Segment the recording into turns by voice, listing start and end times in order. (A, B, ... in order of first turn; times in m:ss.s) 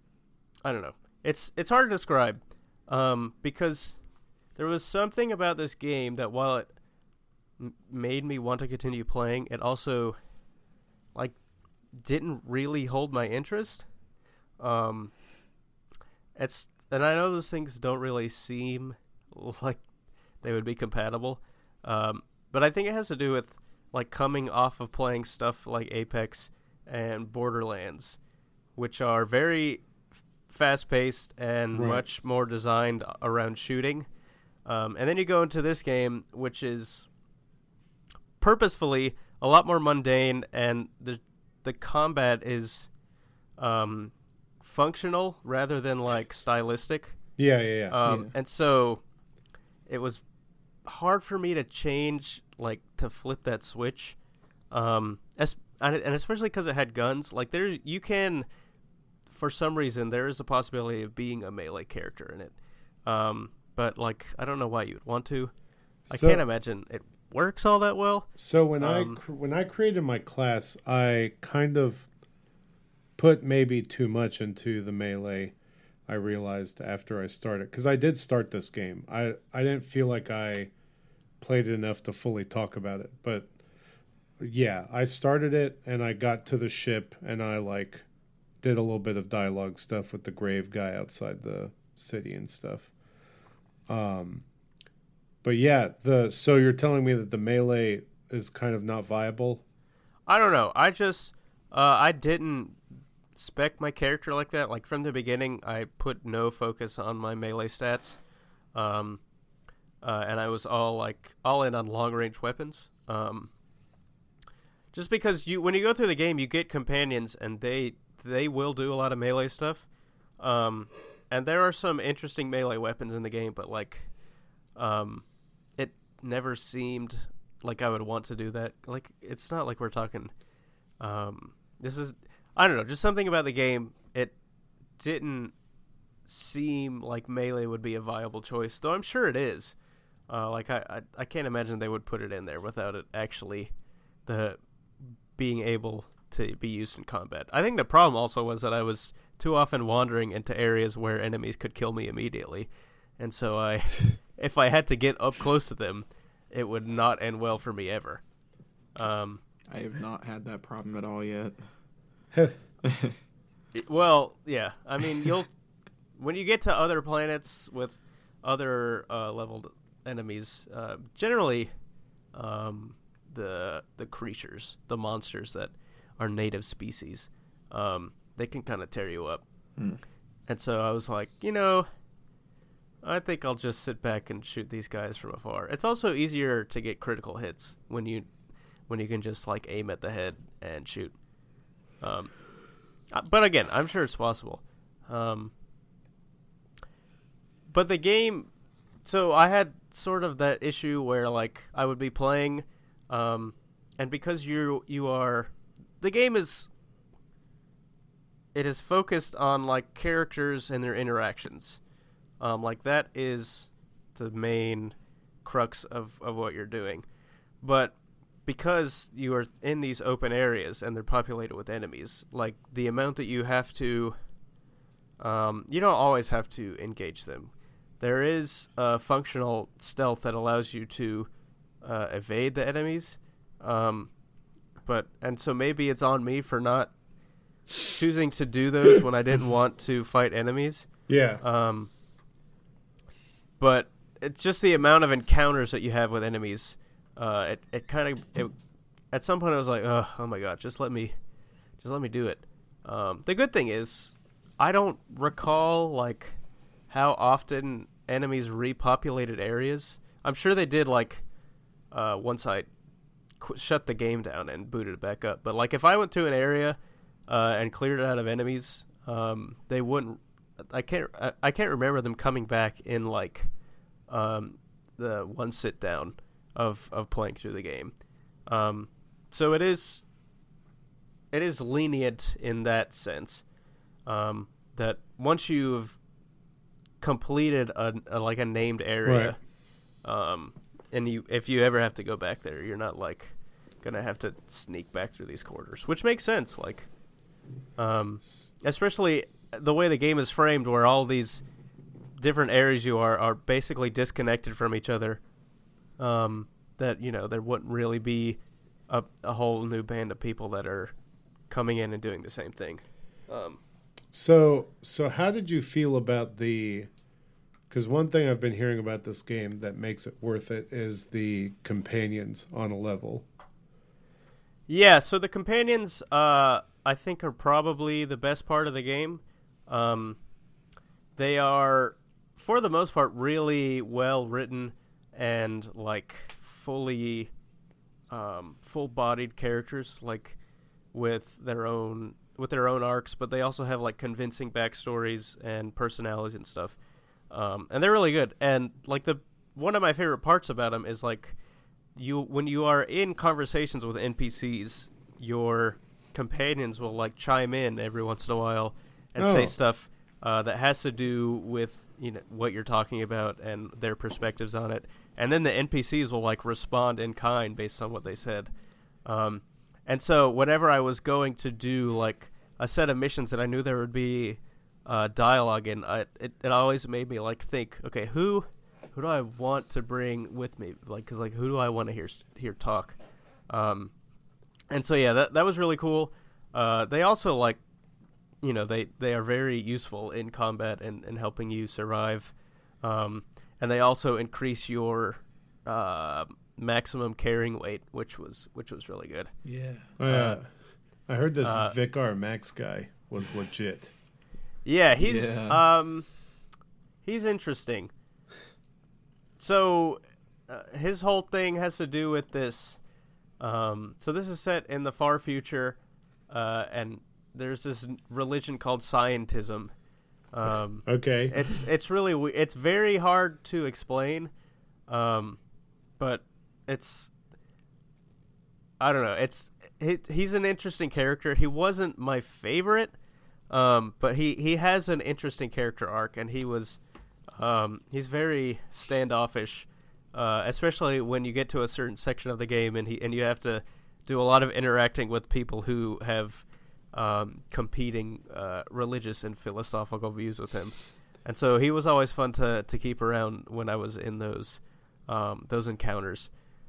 0:00.6-0:04.0 A
0:04.6-0:06.7 A
0:07.6-0:10.2 A
0:12.0-0:13.9 A
0:14.6-0:15.1 A
0:16.4-0:19.8 A
0:20.4-0:28.2 A
0:28.8-0:29.8 A
0:30.5-0:34.0 A
0:31.7-0:32.0 B
0:34.6-0:37.1 A
0:38.4-0:42.9 A
0:43.6-0:47.2 A
0:47.4-0:48.0 B
0:47.9-0:49.0 A
0:48.0-0:48.3 C
0:49.9-0:50.2 A
0:50.8-0:54.2 A
0:54.7-0:58.4 A
0:59.3-1:02.5 A
1:03.0-1:05.5 A
1:06.1-1:06.4 B
1:06.1-1:09.2 A
1:08.4-1:12.1 B
1:13.2-1:15.5 B
1:16.1-1:20.7 B
1:21.4-1:23.5 B
1:24.4-1:28.0 B
1:28.6-1:32.9 B
1:33.9-1:34.4 B
1:35.4-1:39.6 B
1:40.3-1:42.8 A
1:43.3-1:48.2 A
1:48.7-1:49.2 A
1:50.0-1:53.5 A
1:54.9-1:59.8 A
2:00.4-2:04.1 A
2:04.8-2:05.2 A
2:05.8-2:10.3 A
2:11.0-2:14.4 A
2:15.0-2:15.5 A
2:16.2-2:19.7 A
2:20.3-2:23.7 A
2:24.2-2:24.6 A
2:25.3-2:38.2 A
2:39.0-2:39.4 A
2:39.7-2:41.6 C
2:42.8-2:43.2 C
2:43.7-2:45.5 A
2:46.2-2:51.7 A
2:52.3-2:59.4 A
3:00.5-3:01.9 A
3:03.0-3:08.3 A
3:08.9-3:11.1 A
3:12.0-3:12.4 A
3:13.1-3:15.5 A
3:17.7-3:18.5 A
3:19.0-3:26.7 A
3:28.5-3:31.8 A
3:32.4-3:37.0 A
3:37.6-3:44.2 A
3:45.2-3:51.3 A
3:51.8-3:54.1 A
3:54.8-3:56.9 A
3:57.8-4:00.9 A
4:01.1-4:01.4 B
4:01.4-4:01.9 A
4:03.6-4:08.5 A
4:09.1-4:11.1 A
4:11.8-4:16.4 A
4:16.9-4:21.2 A
4:21.9-4:22.7 A
4:23.4-4:26.8 A
4:27.3-4:33.5 A
4:34.1-4:37.9 A
4:38.5-4:40.0 A
4:41.3-4:43.4 A
4:44.0-4:46.0 A
4:47.0-4:49.4 A
4:49.0-4:49.3 B
4:50.0-4:56.9 A
4:57.8-5:01.4 A
5:02.2-5:05.2 A
5:06.0-5:08.4 A
5:08.9-5:10.9 A
5:11.5-5:13.6 A
5:14.1-5:16.9 B
5:17.7-5:23.2 B
5:24.7-5:30.2 A
5:31.2-5:37.3 A
5:38.1-5:40.4 A
5:40.9-5:46.8 A
5:47.3-5:51.4 A
5:52.0-6:08.5 A
5:59.2-5:59.5 B
6:09.0-6:23.0 A
6:23.5-6:23.9 A
6:24.7-6:27.6 A
6:28.4-6:39.3 A
6:39.4-6:39.9 C
6:40.0-6:40.5 B
6:40.0-6:40.4 A
6:41.1-6:43.9 B
6:41.4-6:41.8 A
6:44.6-6:46.1 A
6:45.0-6:45.6 C
6:47.0-6:47.9 A
6:49.4-6:52.8 A
6:53.4-6:55.8 A
6:56.3-6:59.7 A
7:00.3-7:04.3 A
7:00.8-7:01.6 B
7:04.9-7:05.4 A
7:06.0-7:07.1 A
7:08.8-7:12.9 A
7:13.5-7:16.8 A
7:17.4-7:36.3 A